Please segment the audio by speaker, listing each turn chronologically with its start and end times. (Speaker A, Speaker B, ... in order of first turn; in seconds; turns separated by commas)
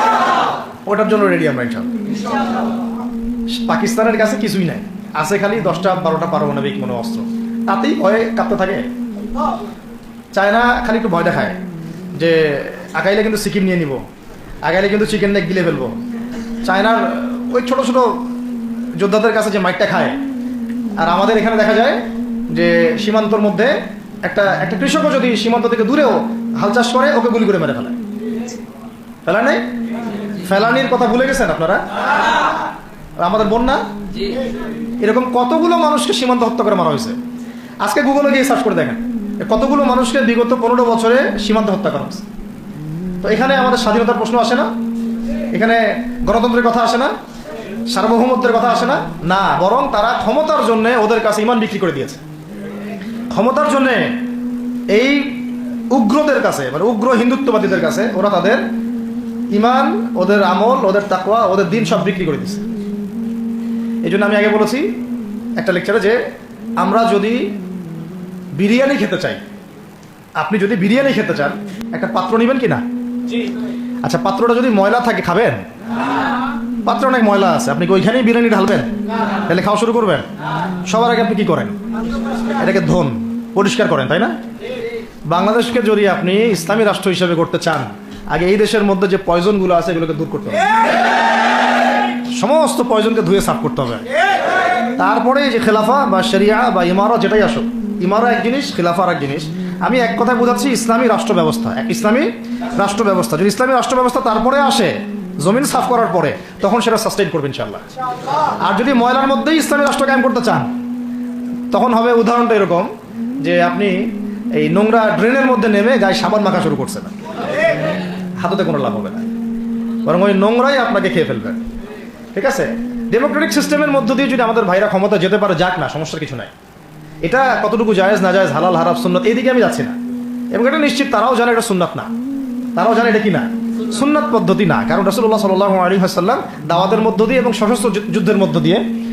Speaker A: 0.8-1.9, Speaker A: 3.5-8.9, Speaker A: 10.3-11.6, Speaker A: 12.2-14.0, Speaker A: 14.6-15.9, Speaker A: 16.6-18.2, Speaker A: 19.0-20.2, Speaker A: 21.0-27.9, Speaker A: 29.2-29.7, Speaker A: 30.4-31.8, Speaker A: 33.2-33.8, Speaker A: 35.0-37.2, Speaker A: 37.8-42.2, Speaker A: 43.2-44.7, Speaker A: 45.5-47.1, Speaker A: 47.9-52.2, Speaker A: 53.3-54.2, Speaker A: 54.9-58.6, Speaker A: 59.5-62.6, Speaker A: 64.0-64.8, Speaker A: 65.6-66.2, Speaker A: 66.8-67.5, Speaker A: 68.5-69.4, Speaker A: 70.4-72.8, Speaker A: 74.0-75.6, Speaker A: 76.8-78.9, Speaker A: 79.5-80.3, Speaker A: 80.8-81.8, Speaker A: 82.5-84.3, Speaker A: 85.3-90.6, Speaker A: 92.3-94.0, Speaker A: 95.0-107.8, Speaker A: 108.6-110.7, Speaker A: 111.7-117.1, Speaker A: 118.4-119.3, Speaker A: 120.0-121.6, Speaker A: 122.3-126.5, Speaker A: 127.2-129.9, Speaker A: 130.5-132.1, Speaker A: 132.8-138.8